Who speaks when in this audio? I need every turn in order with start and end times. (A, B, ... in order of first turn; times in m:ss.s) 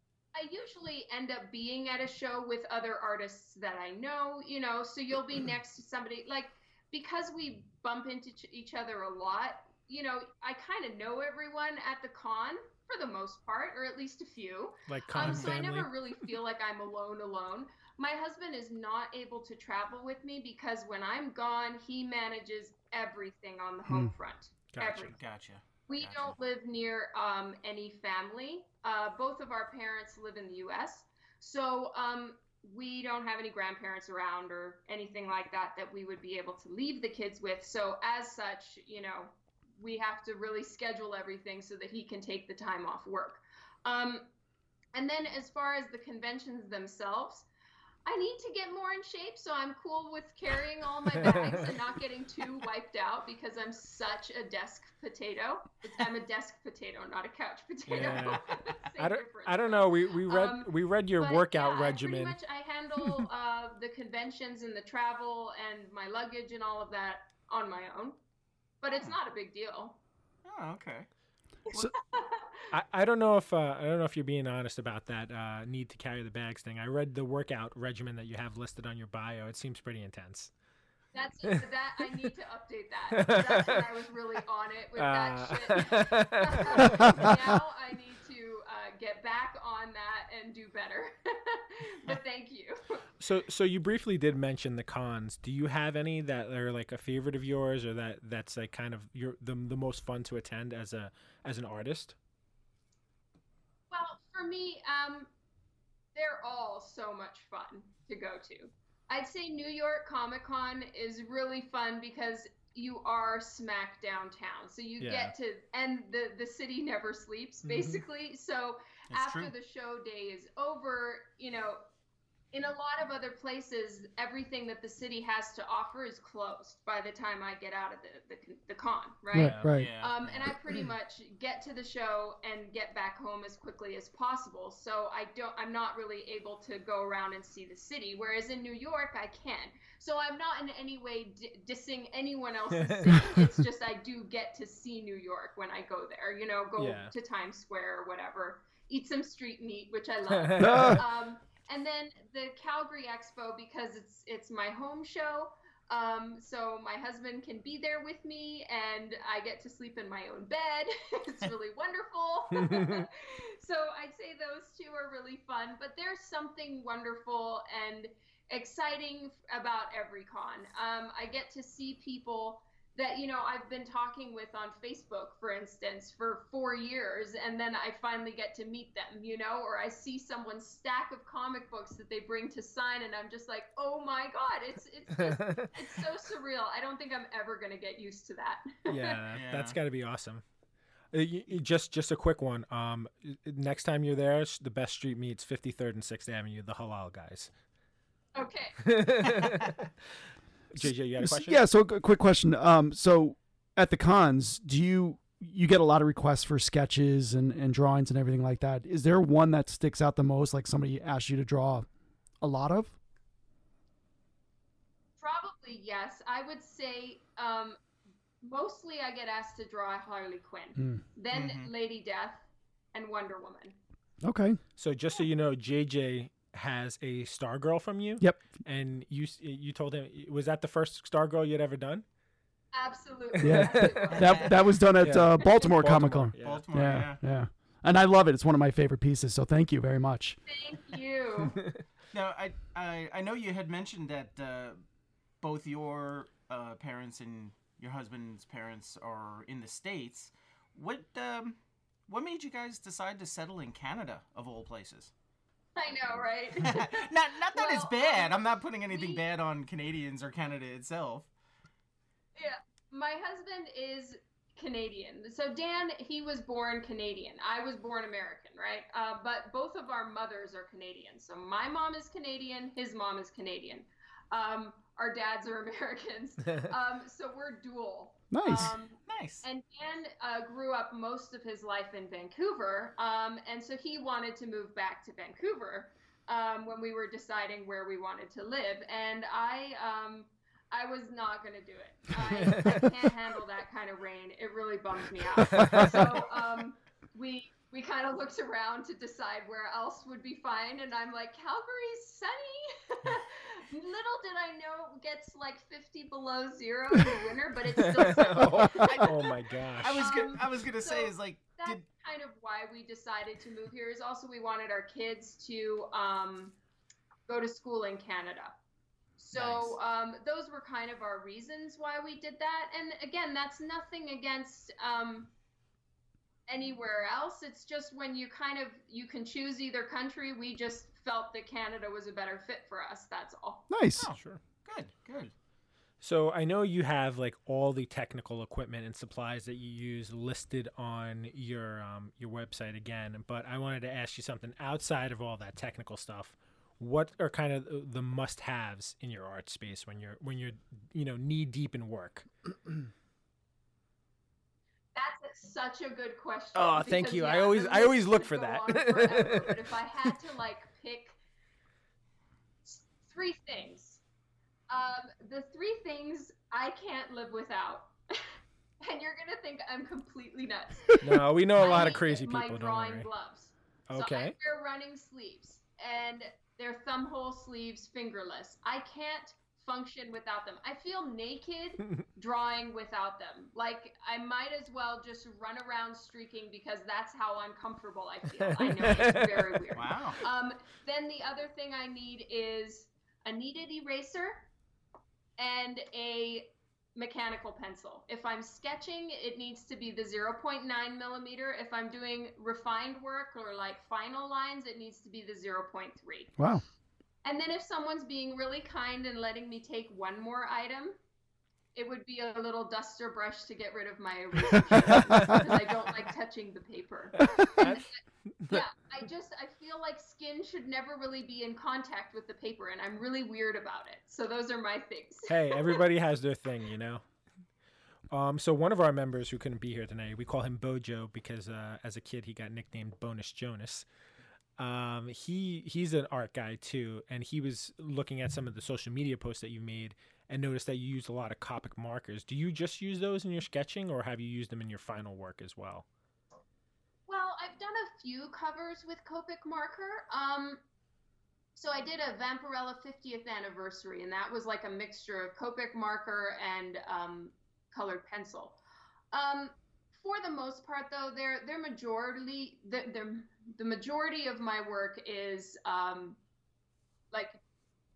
0:00.3-0:25.2 A
0:14.9-0:15.9 B
0:15.2-0:15.6 C
0:24.7-0:25.1 B
0:25.1-0:26.4 C
0:25.9-0:44.3 A
0:44.9-0:47.5 A
0:48.0-1:08.2 A
0:57.9-1:02.4 B
1:08.8-1:10.0 A
1:08.9-1:09.1 C
1:10.4-1:11.1 C
1:11.7-1:12.7 A
1:12.7-1:20.5 B
1:21.1-1:33.0 A
1:23.1-1:23.8 B
1:24.9-1:27.5 B
1:33.2-1:42.1 B
1:43.9-1:45.3 A
1:46.1-2:01.8 A
1:55.0-1:55.3 B
1:57.7-1:58.0 B
1:59.1-1:59.5 C
2:02.5-3:09.2 A
2:09.3-2:09.9 D
2:09.4-2:09.8 B
2:09.7-2:10.5 C
2:22.8-2:23.4 B
2:26.8-2:27.1 B
2:30.3-2:31.0 B
2:30.6-2:31.0 D
2:42.7-2:43.0 B
3:05.2-3:05.7 B
3:08.8-3:10.4 B
3:09.3-3:09.8 C
3:11.1-3:17.5 B
3:18.3-3:19.0 A
3:18.8-3:19.8 B
3:20.7-3:21.6 B
3:20.8-3:31.8 D
3:32.4-3:33.0 D
3:35.2-3:37.8 A
3:38.4-3:43.8 A
3:40.8-3:41.0 D
3:41.3-3:41.7 C
3:44.2-3:44.6 D
3:44.8-3:52.0 B
3:52.7-3:54.7 A
3:53.4-3:54.2 B
3:53.4-4:00.4 D
3:54.2-3:54.6 C
3:55.0-3:56.7 B
3:56.4-3:57.2 C
4:00.5-4:01.6 A
4:02.1-4:04.8 C
4:05.4-4:15.1 C
4:15.8-4:19.2 A
4:16.6-4:21.3 C
4:22.4-5:09.1 A
4:38.3-4:38.7 D
4:39.0-4:39.4 C
4:55.6-4:55.9 B
5:07.8-5:10.3 B
5:08.8-5:09.2 C
5:09.8-5:11.9 C
5:09.9-5:16.6 A
5:17.3-5:18.5 A
5:19.2-5:25.3 A
5:19.3-5:19.8 C
5:26.5-5:33.7 A
5:33.7-5:34.1 D
5:34.0-5:35.3 C
5:34.1-5:34.4 B
5:36.0-5:52.3 B
5:54.9-6:01.2 A
5:56.5-6:00.1 B
6:02.6-6:04.0 A
6:04.7-6:08.3 A
6:08.8-6:34.5 A
6:11.0-6:13.1 B
6:13.9-6:14.4 B
6:28.4-6:29.5 B
6:29.7-6:30.2 C
6:35.4-6:46.4 A
6:46.4-6:46.6 D
6:47.2-6:51.0 A
6:51.7-7:05.8 A
6:57.2-6:57.8 B
7:05.3-7:07.0 B
7:08.1-7:13.8 B
7:14.6-7:25.8 B
7:27.1-7:30.6 A
7:31.6-7:38.6 A
7:39.1-7:46.2 A
7:47.1-7:47.4 A